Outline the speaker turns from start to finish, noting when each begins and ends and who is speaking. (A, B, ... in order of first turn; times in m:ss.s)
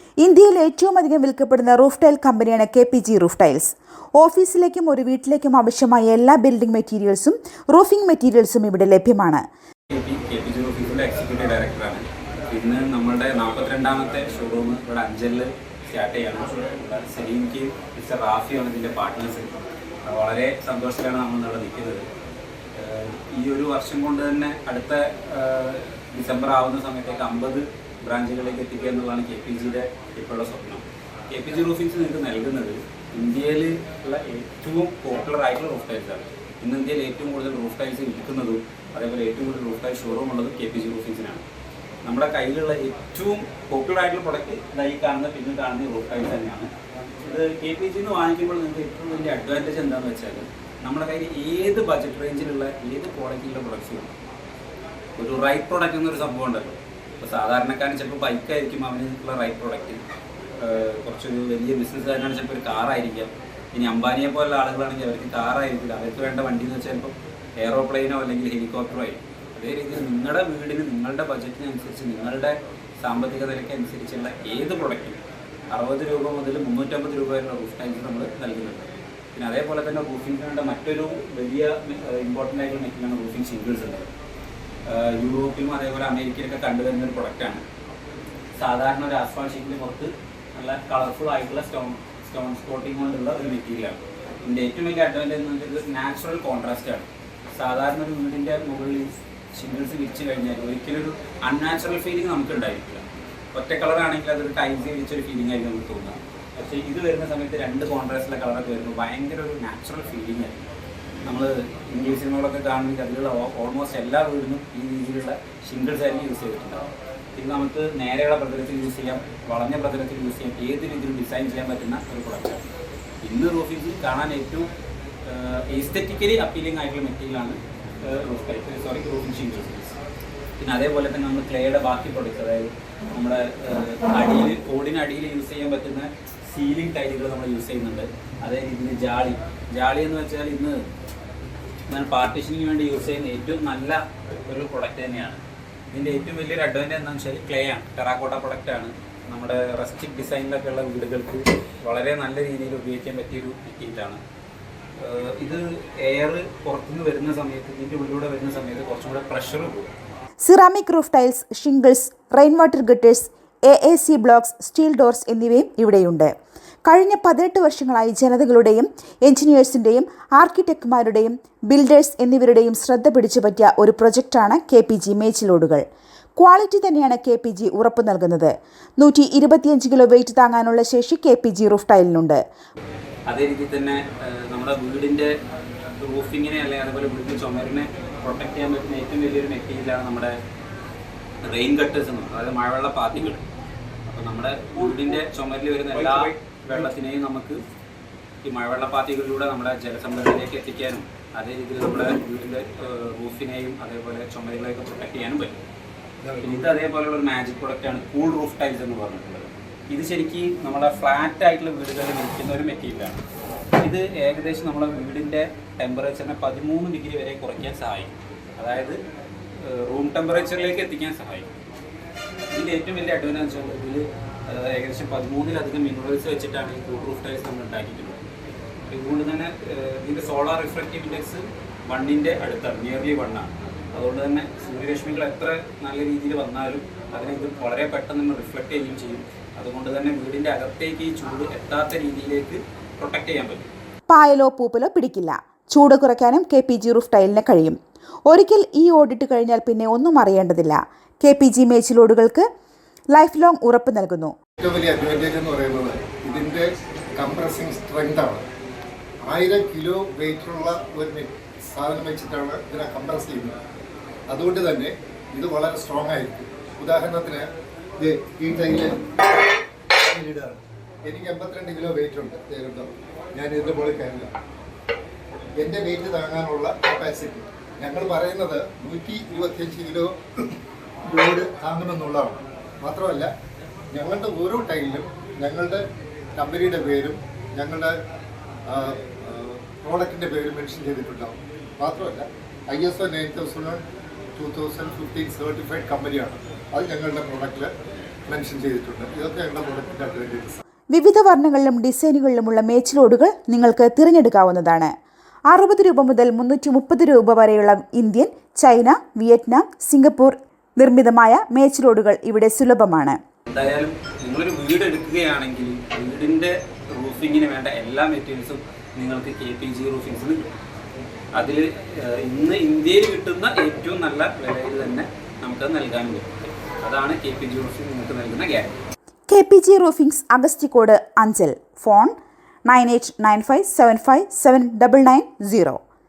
0:00.2-0:09.4 A
0:09.9-0:22.0 B
0:22.8-0:41.4 B
0:42.0-0:46.7 B
0:47.2-0:54.1 B
0:55.2-1:00.0 B
1:00.6-1:15.2 B
1:15.7-1:24.1 B
1:24.8-1:27.6 B
1:28.6-1:43.0 B
1:43.5-1:50.6 B
1:51.2-2:02.6 B
2:03.2-2:04.7 B
2:05.2-2:10.0 B
2:10.6-2:20.8 B
2:21.9-2:34.2 B
2:35.0-2:39.9 B
2:40.4-2:46.3 A
2:46.8-2:55.8 A
2:56.4-3:02.4 A
3:03.3-3:05.3 B
3:06.0-3:10.3 B
3:11.4-3:13.4 B
3:14.1-3:17.6 B
3:15.9-3:16.9 C
3:18.4-3:25.6 B
3:26.2-3:26.7 C
3:26.4-3:33.2 B
3:33.8-3:39.0 B
3:39.6-3:41.5 B
3:42.5-3:48.2 B
3:48.9-4:03.7 B
4:04.1-4:07.8 A
4:08.3-4:12.4 A
4:13.1-4:14.3 A
4:14.6-4:16.6 C
4:17.2-4:18.4 C
4:19.2-4:23.6 C
4:24.3-4:27.5 C
4:28.0-4:28.9 C
4:29.9-4:34.3 C
4:35.6-4:40.1 C
4:41.1-4:43.3 C
4:43.9-4:45.8 C
4:46.4-4:47.9 C
4:48.7-4:53.8 C
4:54.4-4:57.7 C
4:58.3-5:00.6 C
5:00.9-5:04.9 A
5:05.5-5:13.2 A
5:13.5-5:20.5 B
5:21.3-5:28.8 B
5:29.3-5:32.1 A
5:32.7-5:35.8 A